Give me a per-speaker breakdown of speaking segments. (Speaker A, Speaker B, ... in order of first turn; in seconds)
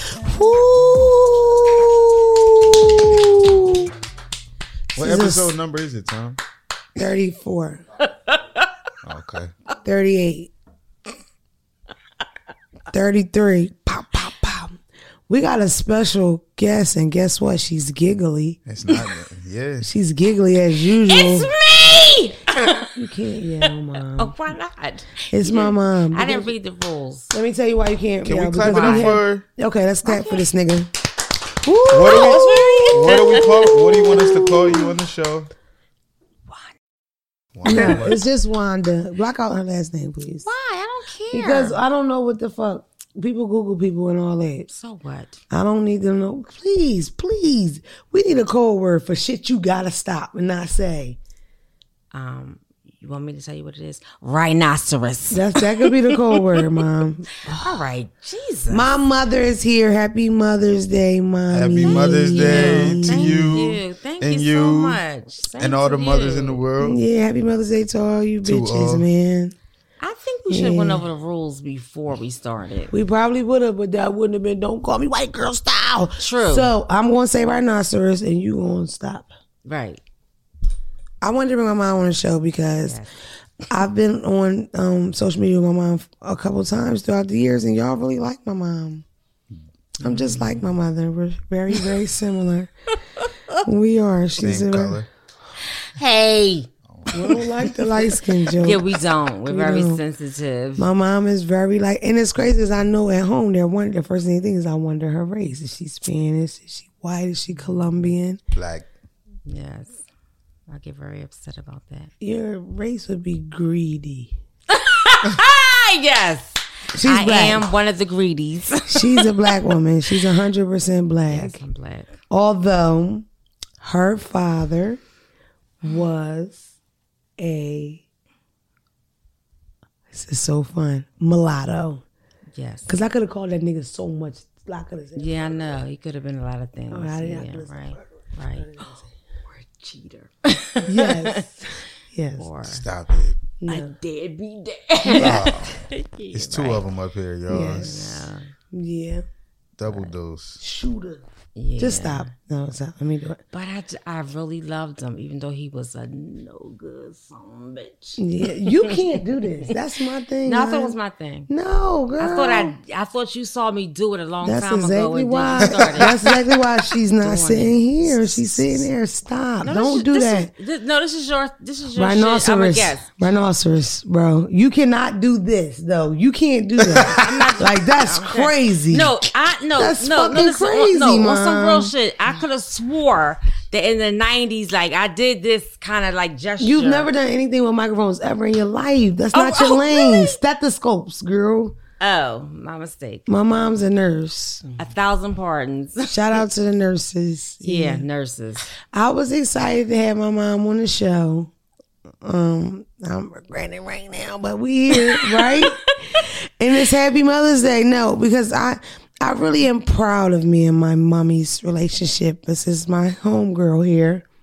Speaker A: 0.2-3.9, 4.9-5.5, 7.0-7.8, 9.8-10.5, 12.9-14.8, 15.3-18.6, 19.8-21.5, 22.9-24.3, 25.3-26.5, 27.3-30.9, 31.6-34.9, 37.6-40.5, 41.3-44.7, 45.5-51.2, 55.3-57.6, 58.7-63.7, 66.8-69.5, 70.5-71.0, 72.9-79.3, 81.2-83.0, 83.7-89.0, 90.0-92.7, 93.6-95.0, 97.1-98.9, 99.5-100.0, 100.8-108.4, 112.2-114.3, 116.9-117.6, 118.9-121.6, 122.3-123.2, 123.8-125.0, 125.8-126.6, 127.4-128.0, 130.1-132.0, 132.9-135.8, 136.9-139.1, 140.8-142.5, 143.6-143.9, 147.5-148.1, 148.7-149.2, 150.6-151.2, 151.8-153.4, 158.2-160.9, 161.5-162.7, 164.4-170.5, 171.9-179.1, 179.8-181.9, 186.6-191.8, 193.3-194.8, 196.1-198.0, 198.9-201.5, 202.2-214.2
Speaker B: 5.0-6.4, 9.0-9.5, 18.6-19.9, 28.2-29.4, 31.9-35.5, 37.5-38.2, 61.5-65.0, 65.6-67.0, 68.4-69.1, 94.4-95.1, 96.9-97.5, 108.5-108.9, 142.7-143.4, 145.1-148.0, 149.8-150.6, 165.6-166.3
Speaker C: 8.2-8.7, 21.0-23.0, 23.6-27.3, 28.7-29.1, 30.0-30.4, 32.0-34.5, 37.7-38.1, 40.4-41.8, 44.7-45.4, 52.1-56.7, 57.5-58.9, 61.8-66.6, 70.0-72.9, 76.2-76.7, 79.6-80.0, 82.8-83.1, 93.2-93.6, 96.0-96.7, 98.0-100.9, 109.5-110.0, 110.7-112.1, 114.7-119.5, 121.3-122.2, 132.5-132.9, 135.2-138.7, 139.5-141.4, 142.4-142.8, 143.7-146.8, 147.8-148.5, 151.5-152.3, 153.5-159.7, 160.4-161.5, 162.2-166.3, 167.2-168.4, 169.6-173.1, 177.0-187.1, 189.3-190.4, 192.0-193.3, 194.8-196.4, 197.6-198.7, 204.9-206.2